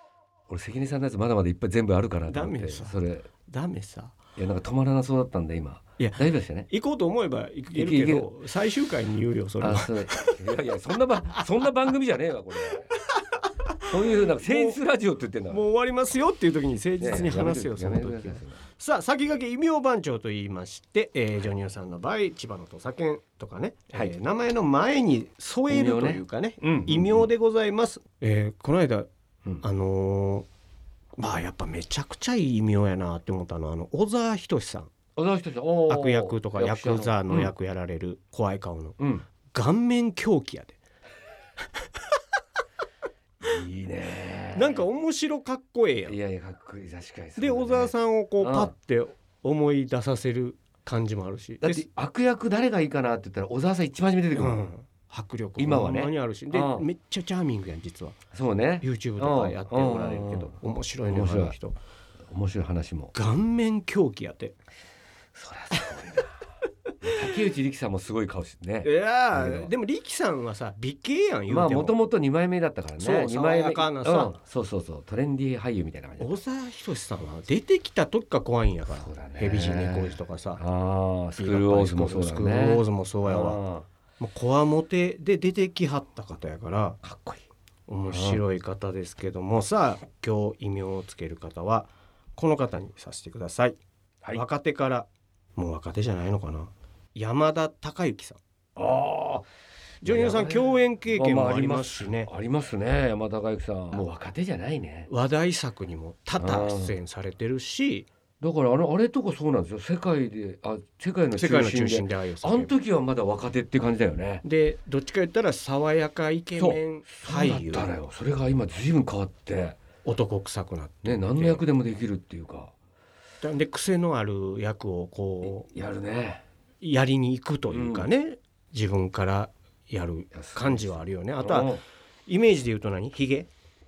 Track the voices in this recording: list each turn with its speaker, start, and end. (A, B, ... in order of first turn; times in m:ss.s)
0:00.5-0:03.3 A
0:02.3-0:04.2 B
0:04.4-0:06.7 A
0:06.0-0:10.4 B
0:07.7-0:08.3 A
0:09.6-0:12.9 A
0:12.7-0:14.8 B
0:13.9-0:15.6 A
0:15.5-0:29.1 B
0:17.0-0:18.6 A
0:25.7-0:27.3 A
0:29.6-0:30.4 B
0:31.2-0:34.9 B
0:35.2-0:37.5 A
0:35.9-0:40.8 B
0:39.0-0:39.3 A
0:43.4-0:44.8 A
0:44.5-0:46.2 B
0:46.0-0:48.7 A
0:47.4-0:51.8 B
0:51.6-0:54.6 A
0:54.3-0:58.2 B
0:55.6-0:56.8 A
0:58.3-1:00.5 A
0:58.8-1:01.8 B
1:01.1-1:01.5 A
1:02.3-1:03.1 A
1:03.1-1:04.5 B
1:05.3-1:06.4 A
1:07.0-1:09.7 A
1:08.8-1:12.0 B
1:11.5-1:16.4 A
1:13.0-1:14.4 B
1:16.2-1:20.6 B
1:18.9-1:23.8 A
1:21.4-1:23.6 B
1:24.2-1:27.0 B
1:27.0-1:27.4 A
1:27.9-1:33.8 B
1:28.1-1:28.4 A
1:34.3-1:38.4 B
1:38.8-1:39.5 A
1:40.0-1:45.1 A
1:40.0-1:42.3 B
1:45.1-1:48.1 B
1:46.4-1:46.9 A
1:48.4-1:54.4 A
1:51.4-1:52.7 B
1:54.4-1:57.9 B
1:56.6-1:59.8 A
2:00.0-2:01.6 B
2:01.0-2:02.7 A
2:03.4-2:05.7 B
2:05.4-2:06.4 A
2:06.8-2:13.5 B
2:07.7-2:08.1 A
2:10.3-2:11.8 A